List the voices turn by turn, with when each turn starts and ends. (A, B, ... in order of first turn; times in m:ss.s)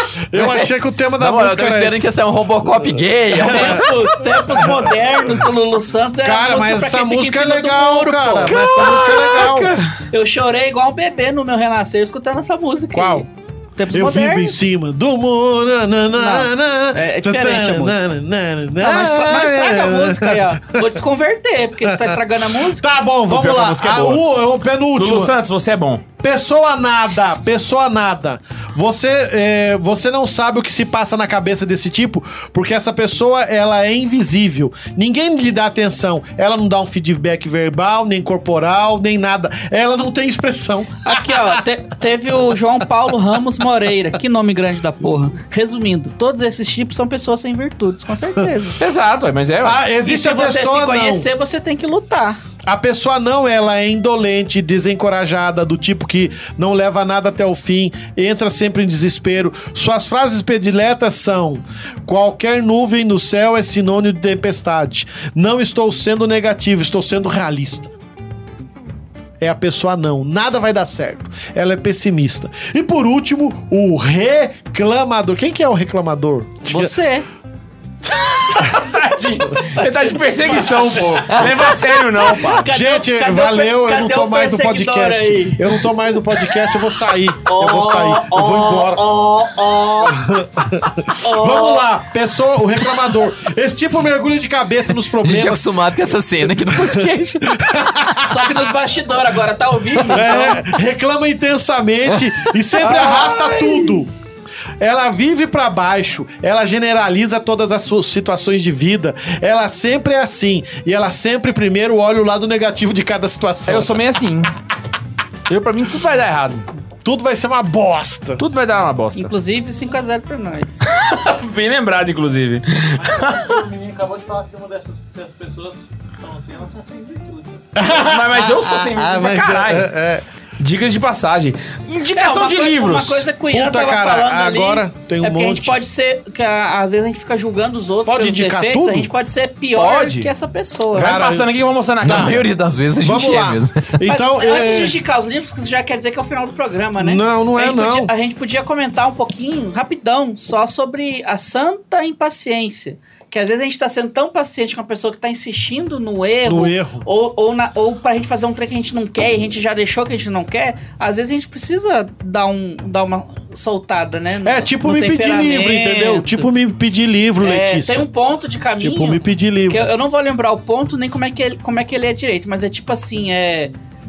0:00.3-0:02.1 A
0:01.2-0:03.9 B
0:03.3-0:03.9 A
0:03.4-0:09.4 C
0:04.4-0:05.0 A
0:06.2-0:09.7 A
0:08.5-0:09.9 D
0:10.1-0:14.6 C
0:12.9-0:13.3 A
0:13.9-0:20.9 A
0:16.2-0:18.0 C
0:18.8-0:22.8 C
0:21.8-0:25.3 A
0:23.3-0:24.3 D
0:25.0-0:26.0 D
0:26.2-0:41.6 A
0:41.0-0:48.8 C
0:48.8-0:49.8 D
0:49.6-0:51.3 A
0:50.0-0:52.4 C
0:52.6-1:07.9 A
1:09.4-1:17.0 A
1:16.6-1:17.3 C
1:18.1-1:22.7 D
1:22.3-1:25.7 C
1:22.7-1:29.1 A
1:27.4-1:30.3 C
1:30.1-1:35.7 A
1:31.1-1:31.9 C
1:35.2-1:38.0 B
1:36.4-1:38.6 A
1:38.2-1:40.6 C
1:40.1-1:44.1 A
1:42.8-1:44.0 D
1:44.8-1:54.0 A
1:53.7-1:54.5 D
1:55.5-1:56.7 D
1:57.0-1:58.4 A
1:58.4-1:59.3 D
1:59.2-2:00.8 C
2:00.8-2:03.6 D
2:03.0-2:07.7 E
2:07.8-2:10.2 A
2:07.9-2:09.9 D
2:10.6-2:13.3 D
2:12.1-2:21.2 C
2:13.5-2:15.8 A
2:18.1-2:19.1 A
2:19.8-2:20.3 D
2:20.9-2:21.5 A
2:21.0-2:22.4 D
2:22.0-2:23.9 B
2:22.0-2:25.0 A
2:24.1-2:46.5 C
2:27.0-2:28.1 A
2:36.4-2:37.0 A
2:44.4-2:48.1 A
2:47.4-2:53.7 C
2:48.8-2:49.9 A